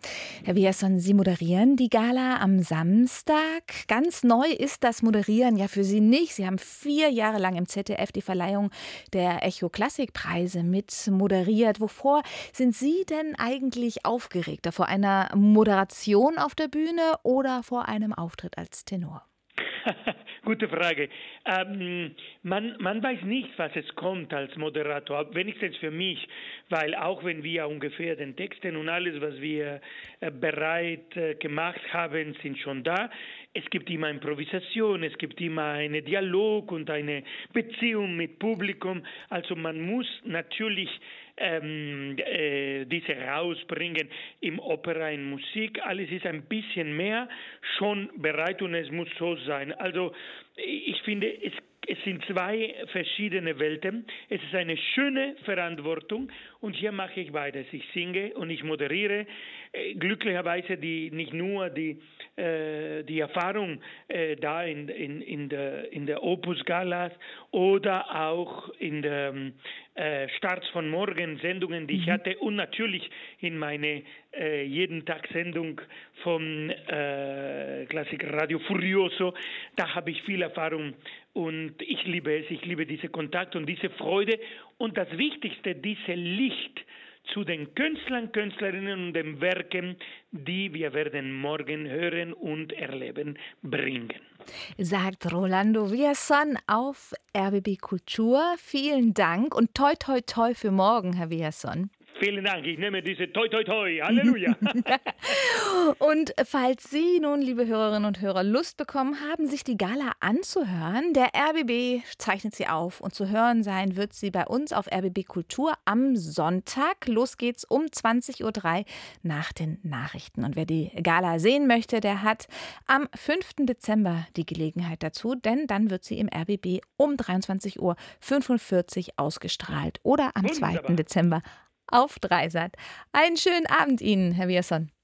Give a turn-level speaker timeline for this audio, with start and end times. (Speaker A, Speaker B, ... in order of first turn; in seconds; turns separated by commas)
Speaker A: 0.5-19.2, Speaker B: 19.8-94.2, Speaker A: 94.8-101.9, Speaker B: 102.2-105.0, Speaker A: 104.9-134.9, Speaker B: 130.4-131.0